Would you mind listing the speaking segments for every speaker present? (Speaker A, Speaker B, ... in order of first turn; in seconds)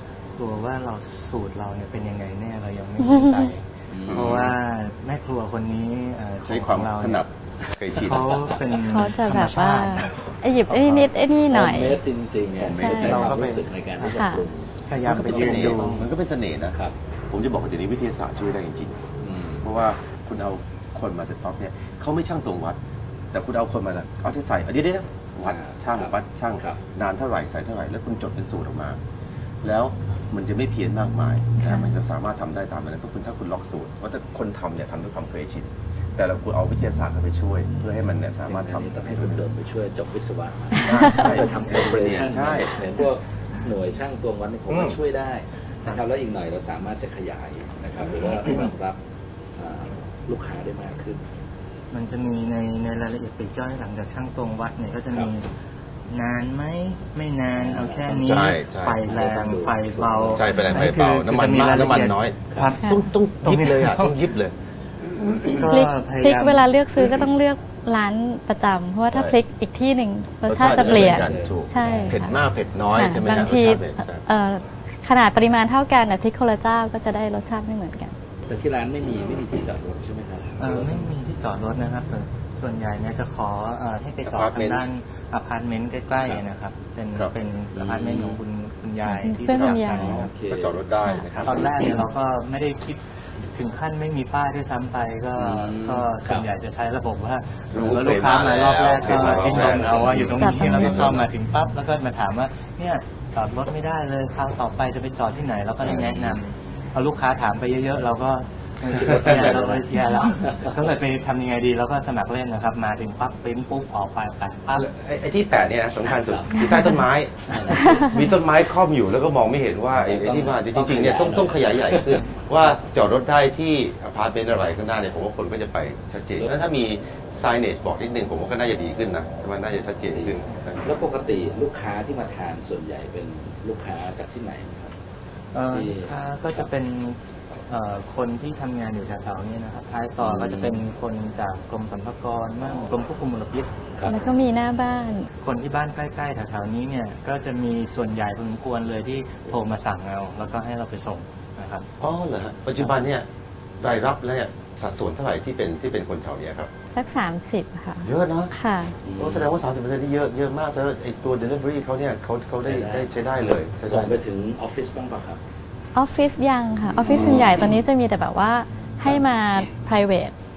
Speaker A: 0.3-7.2, 8.0-11.1, 12.9-14.2, 14.9-16.0, 51.9-55.5, 56.1-64.2, 65.5-66.7, 80.6-90.3, 91.4-114.9, 135.5-143.7, 145.4-151.8
Speaker B: 3.0-3.5, 8.9-12.0, 12.6-13.4, 14.1-14.4, 31.6-31.9, 40.9-41.3, 65.7-72.3, 72.9-78.1, 89.1-90.2, 91.0-91.3, 100.4-101.1, 144.1-145.3, 156.9-158.9, 165.9-170.3
Speaker C: 3.9-4.5, 7.9-8.8, 11.5-16.1, 19.2-19.7, 25.4-26.8, 38.4-49.0, 49.5-51.2, 57.6-60.5, 62.5-62.8, 70.6-72.2, 78.5-81.1, 87.7-88.4, 89.6-90.8, 95.3-96.5, 99.0-100.3, 105.8-106.3, 109.0-109.8, 110.4-110.8, 116.0-116.8, 117.5-118.1, 119.9-122.3, 130.1-134.9, 135.7-136.6, 140.2-140.8, 142.6-142.9, 143.9-144.2, 159.0-159.5, 162.6-163.2, 163.8-165.4, 167.0-167.8
Speaker D: 4.1-4.5, 6.4-8.6, 12.6-13.5, 15.0-16.8, 17.3-19.0, 19.6-22.8, 23.3-29.0, 29.6-39.5, 40.8-42.9, 44.7-45.0, 58.2-59.0, 60.3-64.5, 65.2-65.5, 67.0-67.2, 69.1-69.4, 70.5-74.2, 84.2-84.8, 89.3-89.8, 90.5-91.6, 97.7-101.3, 105.8-106.2, 109.0-109.8, 114.7-130.9, 152.0-153.3, 153.8-156.7, 158.0-158.5, 159.2-164.2, 167.1-167.4